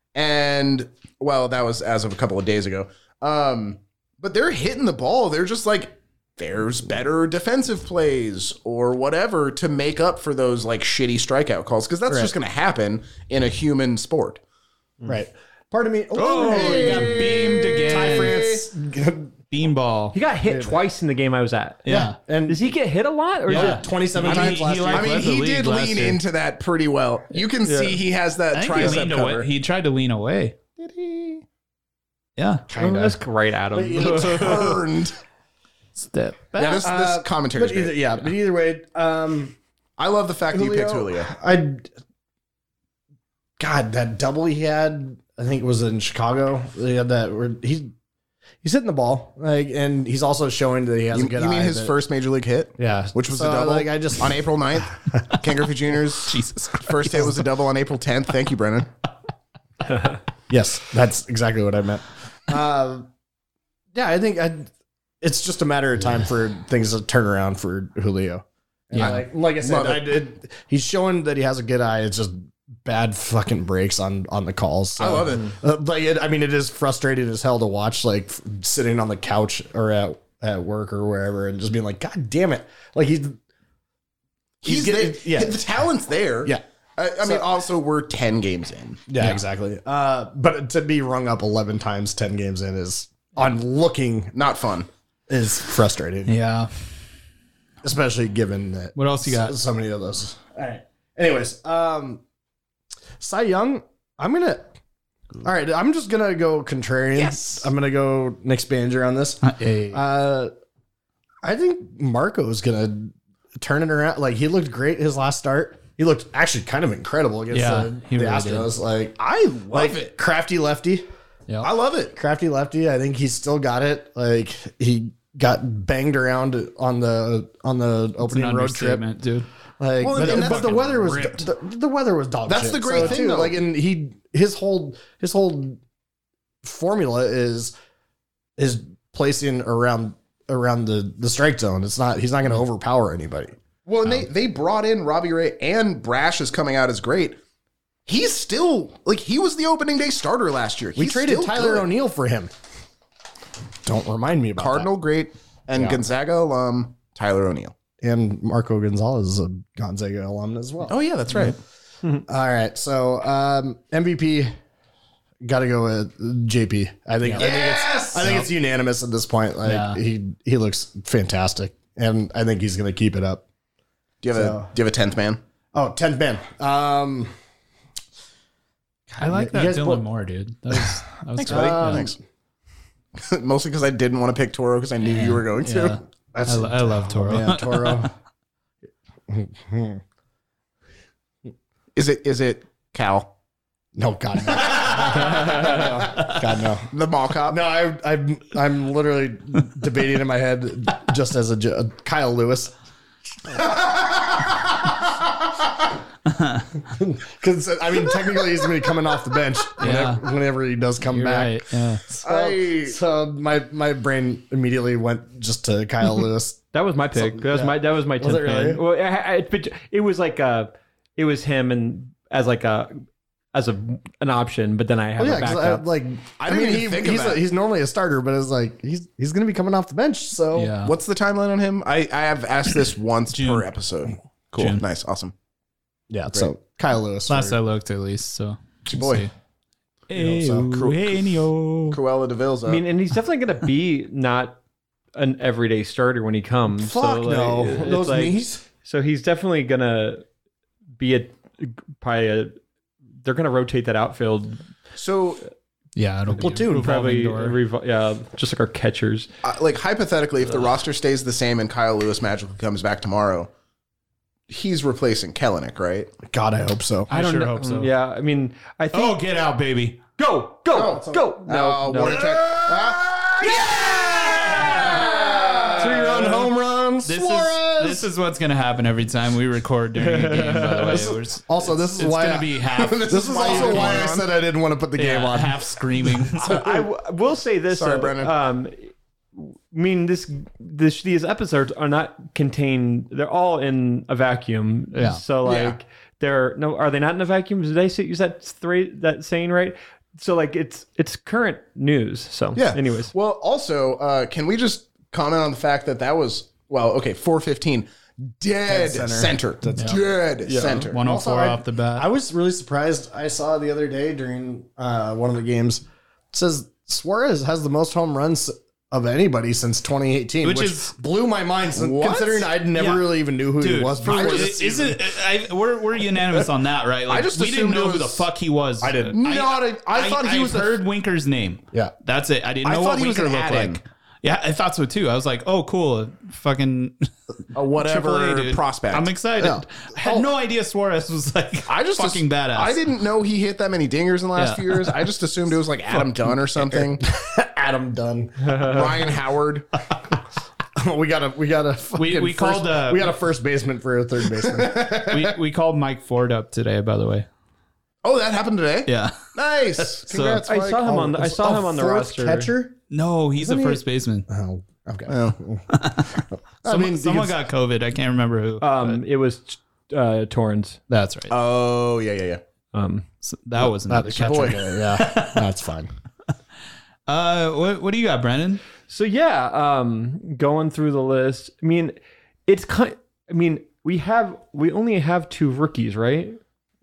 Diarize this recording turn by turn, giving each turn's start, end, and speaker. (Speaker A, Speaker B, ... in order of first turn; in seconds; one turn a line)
Speaker A: 0.1-14.4
Speaker B: 12.1-12.3
Speaker B: 15.1-19.3
Speaker C: 16.1-18.4
Speaker A: 16.4-18.6
Speaker C: 19.5-20.2
Speaker D: 20.1-21.9
Speaker B: 20.4-20.8
Speaker C: 21.9-22.2
Speaker B: 21.9-22.7
Speaker D: 22.5-23.9
Speaker B: 23.5-25.3
Speaker C: 23.5-26.2
Speaker A: 24.2-29.5
Speaker D: 27.6-28.0
Speaker C: 28.5-30.6
Speaker A: 30.8-31.4
Speaker C: 32.4-33.1
Speaker B: 32.7-33.1
Speaker D: 32.7-34.8
Speaker B: 33.7-34.8
Speaker A: 34.0-35.1
Speaker C: 36.0-36.9
Speaker A: 36.6-38.0
Speaker B: 36.6-39.5
Speaker A: 40.0-41.3
Speaker B: 40.5-41.9
Speaker B: 43.6-47.9
Speaker B: 48.6-51.9
Speaker A: 51.1-58.9
Speaker B: 52.8-54.4
Speaker C: 56.3-57.3
Speaker D: 59.9-60.2
Speaker B: 60.5-63.1
Speaker B: 63.9-64.7
Speaker B: 65.2-83.4
Speaker C: 68.9-69.2
Speaker A: 69.6-70.1
Speaker A: 75.0-75.5
Speaker A: 84.6-89.0
Speaker B: 84.7-85.6
Speaker B: 87.2-87.5
Speaker B: 89.1-94.3
Speaker A: 94.3-94.9
Speaker B: 95.3-96.3
Speaker C: 96.3-96.7
Speaker B: 97.8-102.2
Speaker C: 99.0-99.6
Speaker B: 103.2-104.7
Speaker B: 105.4-110.5
Speaker A: 107.2-107.7
Speaker C: 109.4-110.0
Speaker B: 111.4-121.1
Speaker C: 117.5-118.7
Speaker A: 119.2-120.2
Speaker A: 121.6-122.1
Speaker B: 122.2-129.0
Speaker C: 128.2-129.5
Speaker B: 129.8-135.8
Speaker A: 130.0-131.4
Speaker C: 130.2-131.2
Speaker A: 132.5-133.6
Speaker B: 136.6-137.7
Speaker B: 138.6-143.6
Speaker A: 143.9-147.4
Speaker A: 148.1-151.9
Speaker B: 151.0-152.5
Speaker B: 153.8-154.9
Speaker A: 154.6-157.7
Speaker B: 155.7-156.0
Speaker B: 158.0-161.5
Speaker A: 160.9-161.6
Speaker B: 162.3-164.5
Speaker B: 165.4-173.4
Speaker C: 167.2-167.5
Speaker A: 167.4-168.3
Speaker C: 168.2-168.5
Speaker C: 169.6-170.0
Speaker A: 174.2-175.4
Speaker B: 174.3-174.7
Speaker B: 175.8-177.3
Speaker B: 179.1-180.1
Speaker C: 179.2-182.1
Speaker A: 181.4-182.2
Speaker B: 181.5-182.2
Speaker A: 183.2-186.0
Speaker C: 185.1-188.1
Speaker B: 186.3-188.1
Speaker B: 189.3-190.0
Speaker A: 191.9-193.3
Speaker B: 194.0-196.9
Speaker A: 196.9-197.6
Speaker B: 197.5-202.7
Speaker A: 204.1-204.4
Speaker C: 206.3-206.7
Speaker B: 206.8-216.6
Speaker C: 209.8-210.2
Speaker C: 211.1-212.0
Speaker A: 212.2-213.0
Speaker D: 216.7-223.0
Speaker B: 217.2-218.8
Speaker D: 223.5-225.9
Speaker B: 225.2-230.7
Speaker A: 226.4-227.4
Speaker C: 230.5-230.9
Speaker A: 230.8-235.3
Speaker C: 233.3-233.7
Speaker C: 234.6-234.8
Speaker B: 236.1-237.6
Speaker C: 237.3-239.3
Speaker A: 238.9-239.2
Speaker C: 240.1-242.0
Speaker B: 240.1-240.7
Speaker A: 240.7-241.1
Speaker A: 241.9-242.8
Speaker D: 242.7-244.6
Speaker D: 245.2-250.2
Speaker B: 246.8-248.6
Speaker D: 251.0-252.6
Speaker D: 253.2-254.6
Speaker A: 255.0-255.4
Speaker C: 256.0-257.6
Speaker B: 256.3-256.9
Speaker D: 256.7-259.3
Speaker A: 259.4-263.5
Speaker A: 264.5-266.1
Speaker B: 266.2-267.1
Speaker C: 267.1-267.9
Speaker D: 267.1-269.2
Speaker C: 268.9-270.0
Speaker D: 270.2-272.2
Speaker A: 270.7-276.5
Speaker B: 271.9-278.1
Speaker C: 277.1-284.2
Speaker D: 280.0-281.2
Speaker B: 281.5-286.3
Speaker A: 282.8-284.3
Speaker C: 285.0-286.6
Speaker D: 286.4-303.1
Speaker A: 287.7-288.4
Speaker C: 294.9-295.2
Speaker A: 295.4-295.8
Speaker A: 302.6-311.0
Speaker B: 308.7-310.1
Speaker D: 310.4-310.9
Speaker C: 310.9-312.1
Speaker B: 311.0-324.6
Speaker C: 320.4-320.9
Speaker A: 321.7-322.6
Speaker C: 322.8-323.1
Speaker C: 323.6-337.1
Speaker A: 324.1-325.0
Speaker A: 327.1-328.3
Speaker B: 328.8-329.2
Speaker A: 329.1-330.8
Speaker A: 332.6-333.8
Speaker A: 337.5-339.1
Speaker C: 337.8-342.8
Speaker B: 339.4-340.3
Speaker A: 341.7-347.0
Speaker C: 344.4-344.9
Speaker B: 347.0-348.9
Speaker D: 348.4-348.9
Speaker A: 348.6-349.7
Speaker B: 350.8-355.2
Speaker C: 352.0-353.1
Speaker A: 354.5-355.0
Speaker C: 355.1-357.3
Speaker A: 358.0-360.8
Speaker C: 358.9-359.3
Speaker C: 359.9-360.5
Speaker B: 360.3-362.8
Speaker D: 360.5-362.5
Speaker C: 362.9-364.3
Speaker B: 363.4-365.7
Speaker A: 365.1-365.4
Speaker C: 365.7-369.0
Speaker B: 366.3-367.4
Speaker D: 368.6-370.8
Speaker C: 370.9-371.3
Speaker A: 371.3-372.4
Speaker D: 372.7-373.1
Speaker C: 373.2-375.4
Speaker B: 373.6-375.9
Speaker A: 374.2-374.6
Speaker C: 377.1-378.6
Speaker D: 378.9-386.4